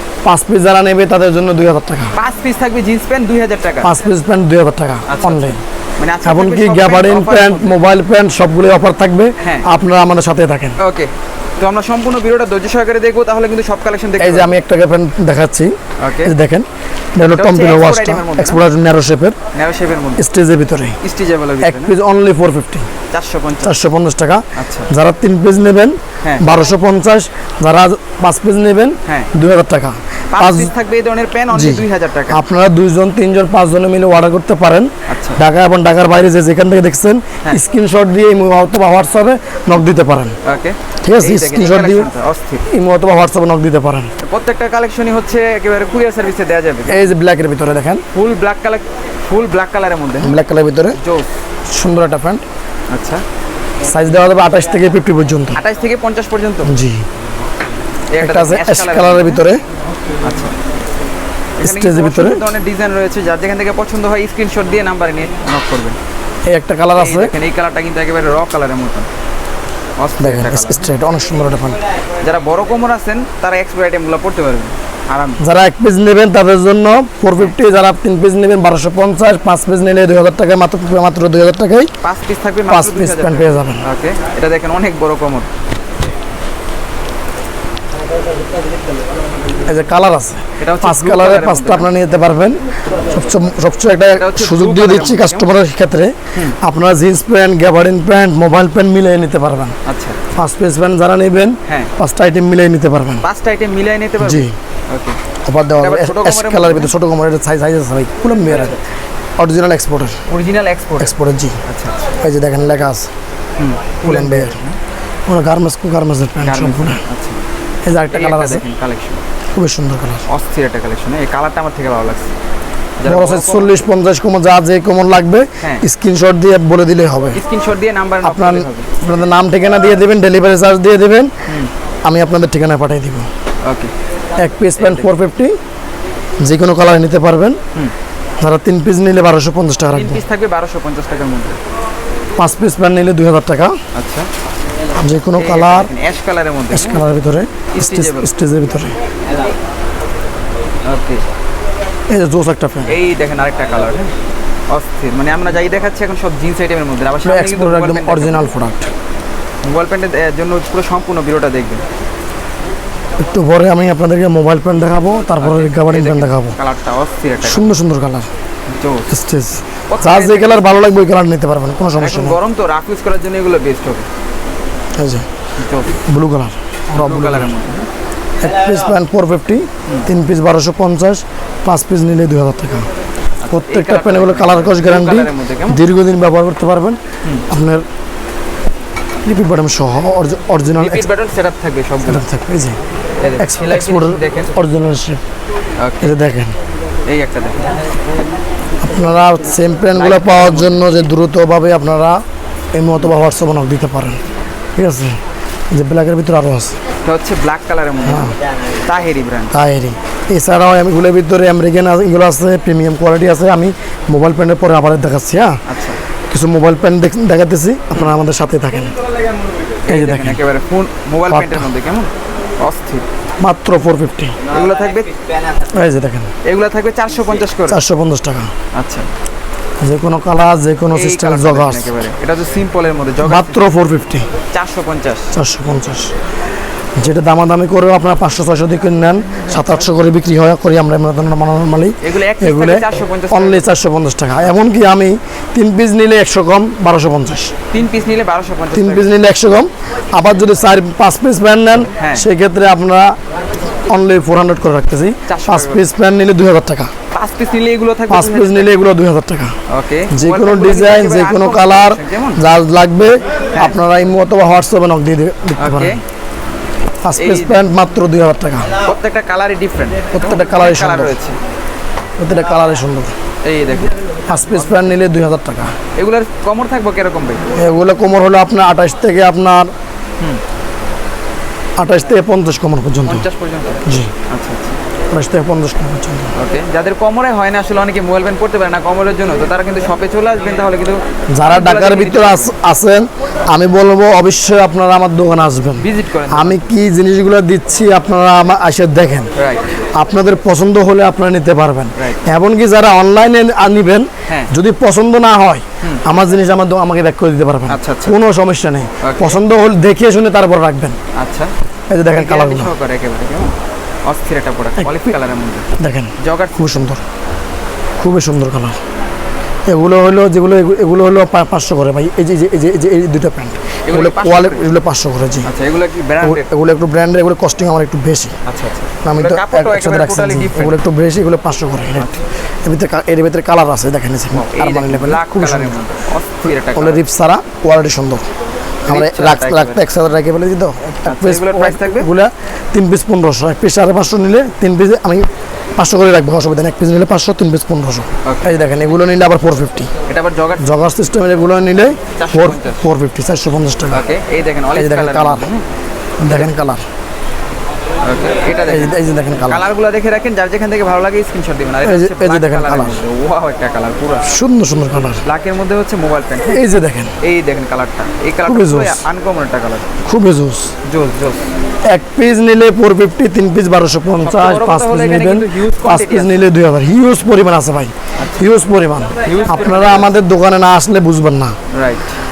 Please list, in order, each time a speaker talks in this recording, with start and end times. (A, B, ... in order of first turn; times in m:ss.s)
0:00.2-0:02.1 A
0:02.2-0:03.9 B
0:03.8-0:05.6 A
0:05.1-0:07.8 B
0:06.2-0:10.8 A
0:09.4-0:09.7 B
0:10.8-0:14.5 B
0:14.2-0:19.4 A
0:16.0-0:16.3 B
0:17.3-0:18.6 B
0:19.5-0:20.2 B
0:20.2-0:21.0 A
0:21.0-0:21.9 B
0:21.6-0:22.9 A
0:23.1-0:23.8 B
0:23.6-0:30.7 A
0:24.5-0:24.9 B
0:30.3-0:32.4 B
0:31.5-0:40.4 A
0:35.0-0:35.4 B
0:40.4-0:42.6 B
0:41.0-0:42.1 A
0:42.6-0:44.1 A
0:44.2-0:47.1 B
0:46.9-0:48.0 A
0:48.1-0:50.3 B
0:50.2-0:51.0 A
0:51.0-0:51.3 B
0:51.7-0:52.4 A
0:52.9-0:53.2 B
0:53.9-0:55.6 A
0:55.5-0:56.7 B
0:56.6-0:57.0 A
0:58.1-0:59.4 B
0:58.2-0:59.6 A
1:00.2-1:00.5 B
1:01.6-1:06.0 B
1:01.6-1:02.4 A
1:06.5-1:07.3 A
1:06.9-1:09.1 B
1:10.0-1:10.9 B
1:10.2-1:11.8 A
1:12.2-1:15.4 B
1:15.4-1:21.9 A
1:22.0-1:25.5 B
1:22.7-1:23.8 A
1:29.7-1:39.8 A
1:30.6-1:31.9 B
1:34.2-1:35.5 B
1:39.8-1:40.2 B
1:40.3-1:43.2 A
1:41.7-1:41.9 B
1:43.2-1:45.2 B
1:44.2-1:44.6 A
1:45.4-1:48.8 A
1:45.8-1:46.9 B
1:48.4-1:48.8 B
1:49.4-1:50.2 A
1:50.3-1:52.0 B
1:51.0-1:51.6 A
1:52.2-1:53.1 A
1:53.6-1:54.8 B
1:54.0-1:54.6 A
1:55.3-1:57.0 A
1:56.4-1:57.4 B
1:57.8-1:58.6 A
1:58.1-1:59.2 B
1:59.5-2:00.2 A
2:00.3-2:02.3 B
2:03.0-2:03.8 B
2:03.0-2:07.4 A
2:07.3-2:08.9 B
2:08.2-2:11.3 A
2:11.4-2:11.7 B
2:12.0-2:13.3 A
2:13.6-2:13.9 B
2:14.4-2:15.6 A
2:14.8-2:15.1 B
2:16.4-2:17.6 A
2:18.4-2:20.2 A
2:19.9-2:21.6 B
2:22.4-2:23.8 A
2:23.9-2:24.3 B
2:25.0-2:25.9 A
2:25.3-2:27.1 B
2:26.7-2:29.0 A
2:27.7-2:28.3 B
2:30.8-2:31.2 B
2:32.1-2:33.0 A
2:32.9-2:34.1 B
2:34.7-2:38.5 B
2:37.2-2:38.9 A
2:39.6-2:41.8 B
2:43.2-2:46.6 A
2:45.4-2:47.7 B
2:47.4-2:48.3 A
2:48.6-2:49.1 B
2:49.1-2:52.4 A
2:49.9-2:50.8 B
2:52.0-2:54.1 B
2:55.0-2:55.2 A
2:55.6-2:56.0 B
2:56.0-2:57.5 A
2:56.9-2:57.9 B
2:58.4-3:02.9 A
3:03.4-3:05.8 B
3:03.5-3:07.8 A
3:09.2-3:11.1 A
3:10.7-3:12.2 B
3:12.1-3:12.8 A
3:13.2-3:14.6 B
3:13.4-3:15.2 A
3:15.8-3:16.2 B
3:16.0-3:16.5 A
3:17.1-3:17.8 B
3:18.8-3:22.2 A
3:19.9-3:21.0 B
3:22.7-3:24.2 A
3:24.8-3:25.2 A
3:25.7-3:26.8 A
3:27.0-3:29.5 B
3:28.0-3:28.4 A
3:29.5-3:35.6 A
3:35.6-3:36.0 B
3:36.3-3:38.9 A
3:39.8-3:43.0 B
3:39.9-3:40.4 A
3:41.3-3:41.7 A
3:43.4-3:44.4 A
3:44.4-3:45.1 B
3:45.7-3:46.3 A
3:46.4-3:47.8 B
3:47.7-3:48.5 A
3:48.7-3:49.1 B
3:49.8-3:51.9 A
3:50.9-3:53.6 B
3:53.2-3:54.3 A
3:54.5-3:55.3 B
3:55.3-3:56.1 A
3:57.0-4:07.5 A
4:02.0-4:03.7 B
4:07.7-4:09.1 B
4:08.7-4:13.2 A
4:11.9-4:12.3 B
4:13.8-4:16.9 A
4:15.3-4:15.8 B
4:17.1-4:18.7 B
4:18.1-4:19.6 A
4:19.7-4:22.4 B
4:20.1-4:26.0 A
4:25.6-4:26.0 B
4:27.0-4:28.8 A
4:27.2-4:27.6 B
4:28.8-4:31.4 B
4:30.1-4:31.1 A
4:32.2-4:33.1 A
4:33.4-4:33.9 B
4:34.3-4:35.7 A
4:35.9-4:37.4 B
4:37.5-4:39.7 A
4:41.8-4:43.3 A
4:43.0-4:44.8 B
4:43.8-4:44.1 A
4:45.1-4:46.3 A
4:46.3-4:52.6 B
4:51.3-4:59.3 A
4:55.8-4:56.7 B
4:59.4-4:59.6 B
5:00.0-5:11.0 A
5:02.0-5:02.2 B
5:07.7-5:08.2 B
5:09.0-5:09.4 B
5:11.1-5:11.5 B
5:11.9-5:12.7 A
5:12.1-5:13.5 B
5:14.0-5:16.8 B
5:15.8-5:17.0 A
5:18.0-5:18.8 A
5:19.7-5:25.5 A
5:23.9-5:24.6 B
5:25.4-5:26.5 B
5:26.2-5:28.3 A
5:28.4-5:30.8 B
5:29.0-5:32.1 A
5:31.9-5:32.2 B
5:32.6-5:35.8 A
5:34.3-5:37.0 B
5:36.7-5:38.2 A
5:38.9-5:39.8 B
5:38.9-5:49.9 A
5:41.0-5:42.1 B
5:48.2-5:48.6 B
5:50.1-5:50.7 B
5:50.6-5:54.1 A
5:52.2-5:52.8 B
5:53.9-5:55.6 B
5:54.7-5:55.5 A
5:56.2-5:56.8 A
5:58.0-6:04.3 B
5:58.6-5:59.7 A
6:01.8-6:03.0 A
6:04.2-6:05.2 A
6:05.2-6:06.6 B
6:06.5-6:07.1 A
6:07.2-6:09.9 B
6:08.4-6:09.0 A
6:10.0-6:10.7 A
6:10.8-6:11.4 B
6:11.9-6:21.6 A
6:14.2-6:16.4 B
6:18.2-6:18.5 B
6:19.2-6:20.1 B
6:21.7-6:22.1 B